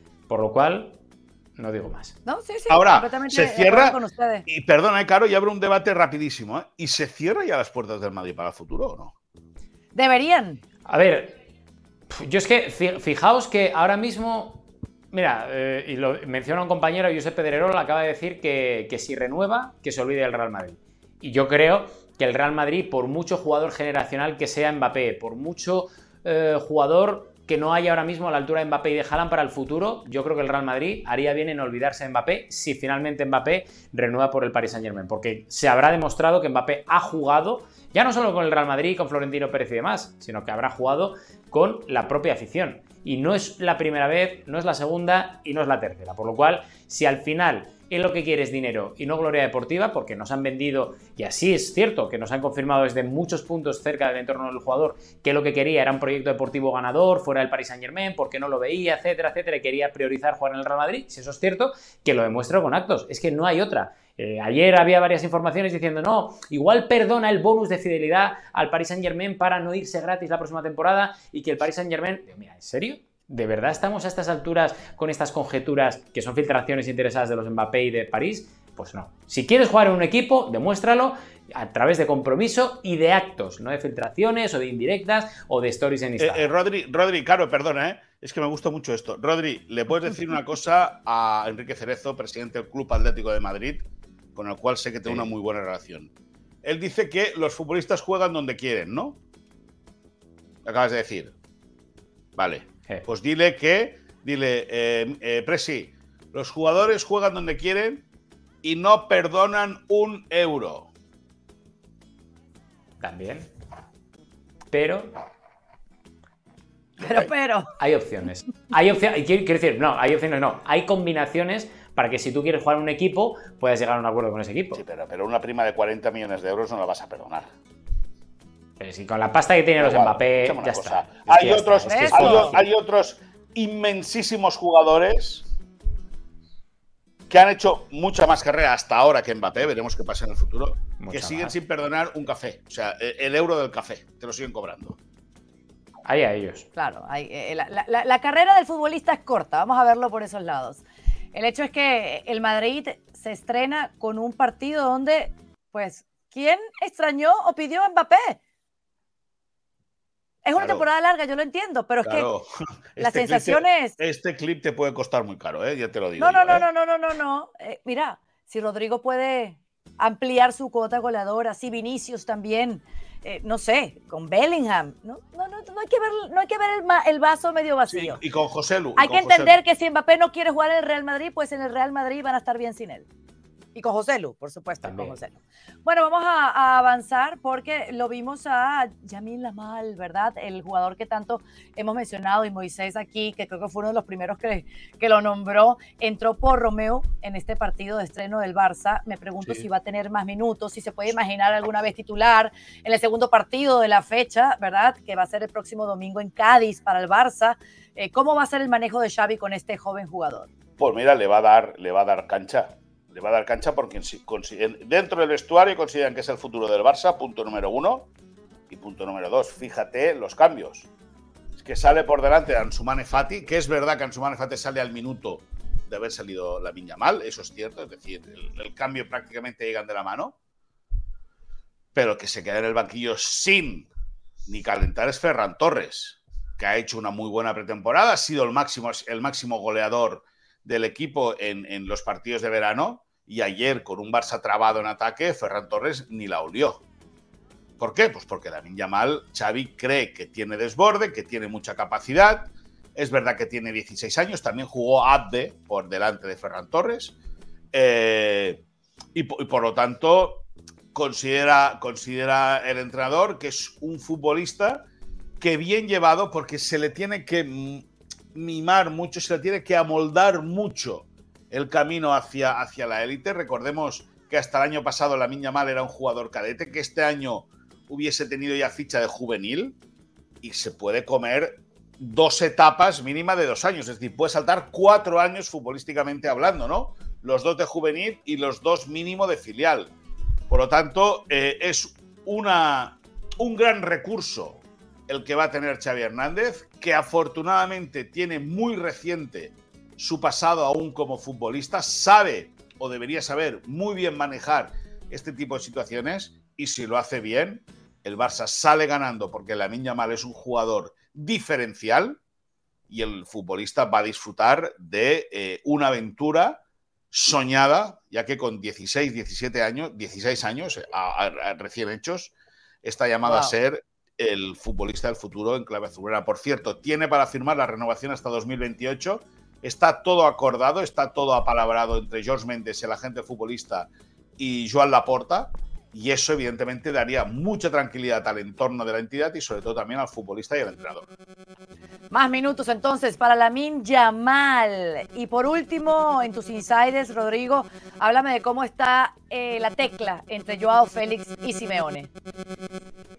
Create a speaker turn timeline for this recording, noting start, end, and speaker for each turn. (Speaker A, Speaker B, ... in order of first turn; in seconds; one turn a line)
Speaker A: 0.3-1.0
Speaker A: 1.6-2.1
Speaker B: 2.2-4.5
Speaker C: 2.7-9.1
Speaker B: 9.9-10.6
Speaker A: 10.9-11.3
Speaker A: 12.1-86.5
Speaker C: 86.2-96.1
Speaker C: 96.6-99.2
Speaker C: 100.6-101.3
Speaker C: 102.4-108.0
Speaker C: 108.6-110.9
Speaker A: 113.0-113.5
Speaker A: 114.7-115.1
Speaker B: 117.0-117.7
Speaker A: 117.8-124.8
Speaker C: 124.7-127.5
Speaker A: 128.8-132.7
Speaker C: 129.8-135.5
Speaker B: 131.9-132.5
Speaker C: 137.3-145.0
Speaker A: 141.0-141.5
Speaker A: 146.1-146.7
Speaker B: 146.8-150.8
Speaker B: 151.3-158.4
Speaker B: 160.4-162.3
Speaker C: 160.6-160.8
Speaker C: 162.0-166.7
Speaker B: 163.0-164.0
Speaker B: 166.2-178.2
Speaker C: 177.9-179.6
Speaker B: 179.0-183.1
Speaker B: 183.8-210.5
Speaker A: 184.8-185.1
Speaker C: 210.8-218.1
Speaker C: 218.7-220.9
Speaker C: 221.6-230.4
Speaker C: 231.9-233.9
Speaker C: 234.5-246.8
Speaker C: 247.8-257.1
Speaker C: 257.7-258.6
Speaker C: 259.1-264.9
Speaker C: 265.4-279.8
Speaker C: 280.4-289.9
Speaker C: 290.5-312.2
Speaker C: 312.9-341.1
Speaker B: 323.2-323.5
Speaker B: 342.1-352.1